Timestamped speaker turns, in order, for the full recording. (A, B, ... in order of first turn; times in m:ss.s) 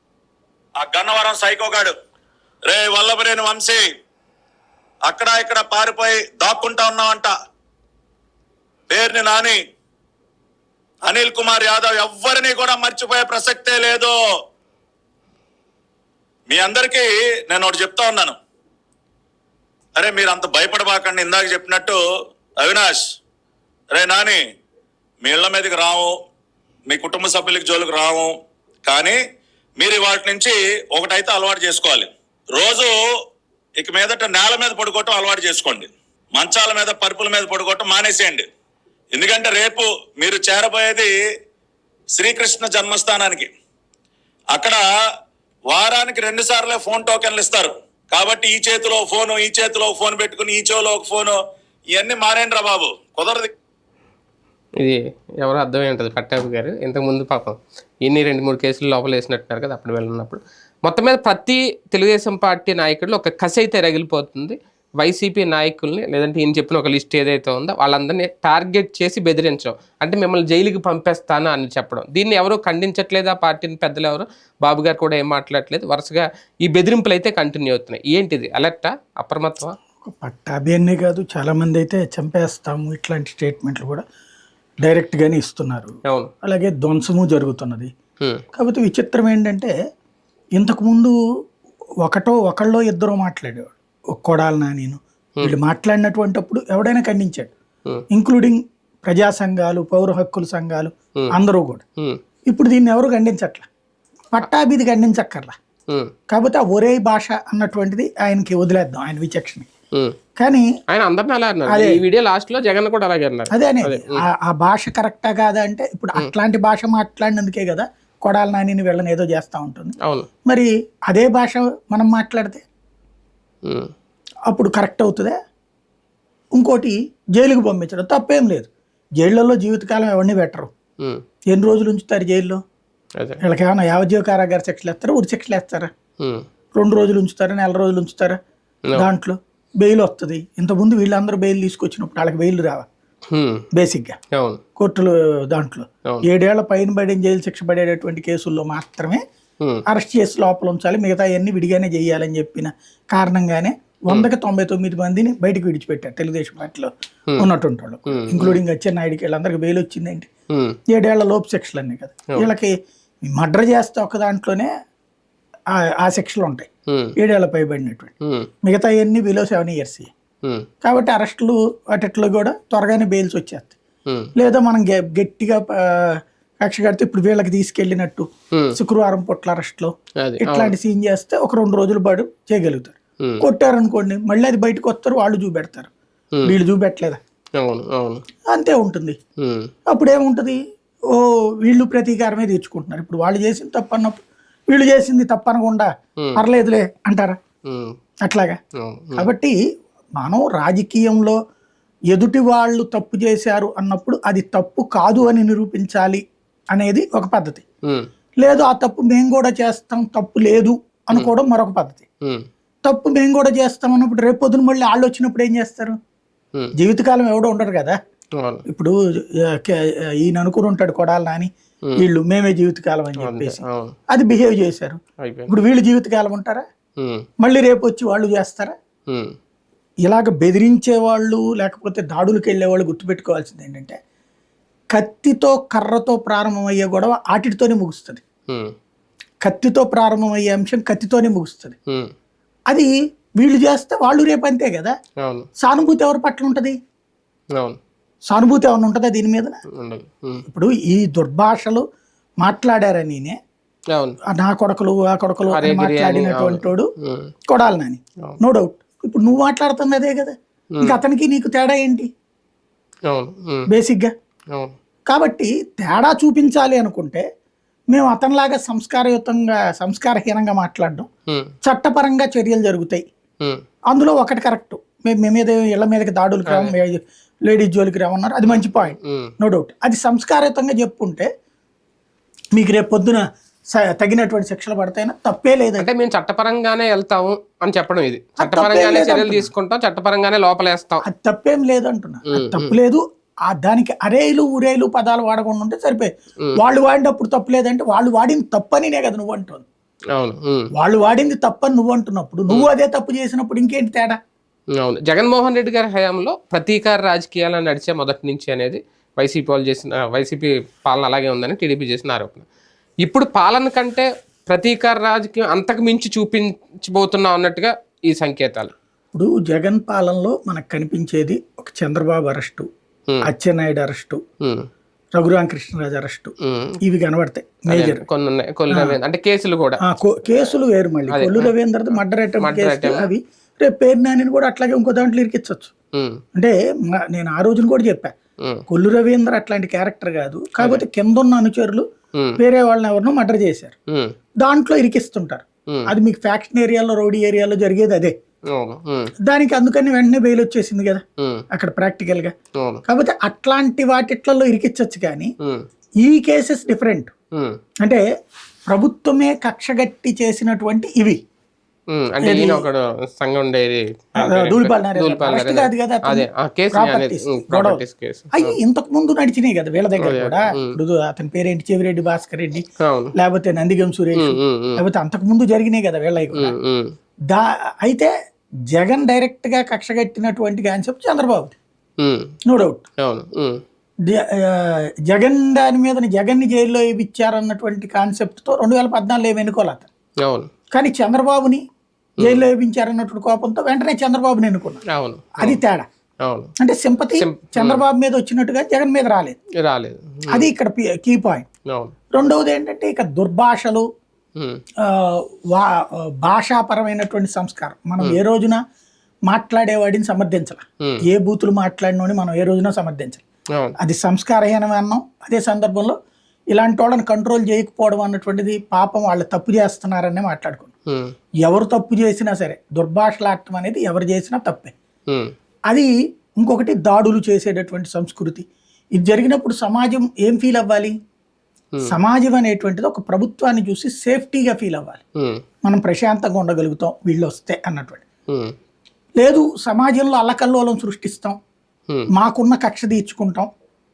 0:00.8-0:01.9 A
0:02.6-0:03.9 A
0:05.0-0:07.3 A
0:08.9-0:09.6 A
0:11.0-0:14.2 A
0:16.5-0:18.3 A
0:20.0-0:22.0 A
0:22.6-0:23.1 A
0:23.9-0:24.4 A
0:25.2-0:26.2 A
0:26.9-0:28.3 A
0:28.8-0:29.2 A
0:29.8-0:32.9 A
0:33.8-0:38.4 A
0:39.1-0:41.1 A
0:42.2-0:43.5 A
0:44.5-0:44.8 A
0:45.7-0:51.4 A
0:51.9-0:53.5 A
0:54.8-1:19.8 B
1:20.0-1:24.0 C
1:24.8-1:27.9 C
1:26.0-1:26.3 B
1:28.5-1:29.7 C
1:30.6-1:31.2 C
1:32.0-1:37.5 C
1:38.1-1:41.8 C
1:42.5-1:43.7 C
1:44.3-1:45.6 C
1:46.3-1:49.7 C
1:50.4-1:50.7 C
1:50.9-1:54.2 B
1:51.7-1:52.0 C
1:53.5-2:02.6 C
2:00.0-2:00.3 B
2:03.6-2:03.9 B
2:04.5-2:05.4 C
2:06.5-2:08.7 C
2:09.2-2:10.7 C
2:11.5-2:12.6 C
2:13.4-2:15.9 C
2:16.2-2:16.4 B
2:16.7-2:18.4 C
2:19.0-2:22.9 C
2:23.3-2:23.6 B
2:23.7-2:24.2 C
2:24.3-2:24.6 B
2:24.8-2:29.2 C
2:29.9-2:40.3 C
2:38.1-2:38.6 B
2:40.5-2:40.8 B
2:40.9-2:44.7 C
2:45.7-2:50.1 C
2:46.9-2:47.1 B
2:48.2-2:48.5 B
2:50.8-2:53.7 C
2:54.1-2:54.3 B
2:54.4-3:05.9 C
2:58.5-2:58.8 B
3:00.2-3:00.7 B
3:06.4-3:07.2 C
3:07.6-3:08.2 B
3:08.5-3:09.2 C
3:09.4-3:09.7 B
3:09.9-3:10.6 C
3:11.1-3:17.4 C
3:17.7-3:18.0 B
3:18.2-3:18.6 C
3:18.8-3:19.3 B
3:19.1-3:19.5 C
3:20.2-3:21.4 C
3:22.1-3:27.6 C
3:28.4-3:32.0 C
3:32.8-3:36.0 C
3:36.8-3:38.0 C
3:38.4-3:38.6 B
3:38.7-3:46.6 C
3:43.2-3:44.0 B
3:45.2-3:45.5 B
3:47.0-3:47.2 B
3:47.4-3:48.7 C
3:49.1-3:49.3 B
3:50.0-3:54.0 C
3:54.9-3:58.2 C
3:58.5-3:58.7 B
3:59.4-4:01.8 C
4:01.9-4:02.1 B
4:02.7-4:04.9 C
4:05.2-4:05.5 B
4:05.6-4:06.8 C
4:08.3-4:09.6 C
4:09.7-4:10.4 B
4:10.4-4:11.8 C
4:12.4-4:13.4 C
4:13.9-4:14.2 B
4:14.2-4:16.9 C
4:15.5-4:17.3 B
4:17.5-4:22.1 C
4:23.1-4:23.7 B
4:23.7-4:24.1 C
4:25.1-4:27.2 C
4:27.9-4:31.1 C
4:31.3-4:31.5 B
4:31.6-4:33.0 C
4:33.9-4:41.3 C
4:36.5-4:36.7 B
4:38.5-4:39.3 B
4:42.5-4:45.9 C
4:45.8-4:51.0 B
4:48.4-4:49.5 C
4:51.0-4:59.6 C
4:52.3-4:52.7 B
5:00.1-5:00.7 B
5:00.7-5:04.2 C
5:04.8-5:12.4 B
5:13.0-5:18.7 B
5:19.1-5:22.7 C
5:23.2-5:24.2 C
5:24.4-5:24.7 B
5:25.2-5:28.0 C
5:26.4-5:26.8 B
5:27.7-5:30.5 B
5:28.7-5:29.0 C
5:29.8-5:35.7 C
5:31.1-5:31.5 B
5:32.4-5:33.1 B
5:35.9-5:36.2 B
5:36.3-5:38.1 C
5:38.7-5:41.9 C
5:42.4-5:43.7 C
5:44.4-5:48.1 C
5:48.5-5:49.1 B
5:49.2-5:52.3 C
5:51.2-5:51.4 B
5:52.6-5:52.8 B
5:52.8-5:55.3 C
5:56.0-5:57.1 C
5:58.7-6:01.2 C
6:01.9-6:08.6 B
6:02.2-6:02.6 C
6:04.2-6:12.6 C
6:10.0-6:10.8 B
6:12.8-6:13.1 B
6:13.2-6:16.5 C
6:14.2-6:14.8 B
6:16.3-6:16.9 B
6:17.3-6:18.1 C
6:18.7-6:21.6 C
6:22.0-6:22.3 B
6:22.4-6:22.8 C
6:23.0-6:23.6 B
6:24.0-6:29.9 C
6:30.2-6:30.5 B
6:30.7-6:31.6 C
6:32.2-6:32.4 B
6:32.2-6:34.8 C
6:34.9-6:35.6 B
6:35.4-6:35.8 C
6:36.2-6:36.5 B
6:36.6-6:39.4 C
6:37.2-6:37.8 B
6:39.6-6:40.5 B
6:40.3-6:41.4 C
6:41.7-6:41.9 B
6:42.1-6:43.8 C
6:44.8-6:48.6 C
6:49.3-6:53.2 C
6:53.8-6:56.0 C
6:56.5-7:00.7 C
7:00.9-7:01.1 B
7:01.4-7:04.7 C
7:05.1-7:05.3 B
7:05.7-7:11.0 C
7:11.8-7:15.0 C
7:15.2-7:15.4 B
7:15.6-7:18.0 C
7:18.3-7:18.5 B
7:19.2-7:21.4 C
7:22.1-7:23.5 C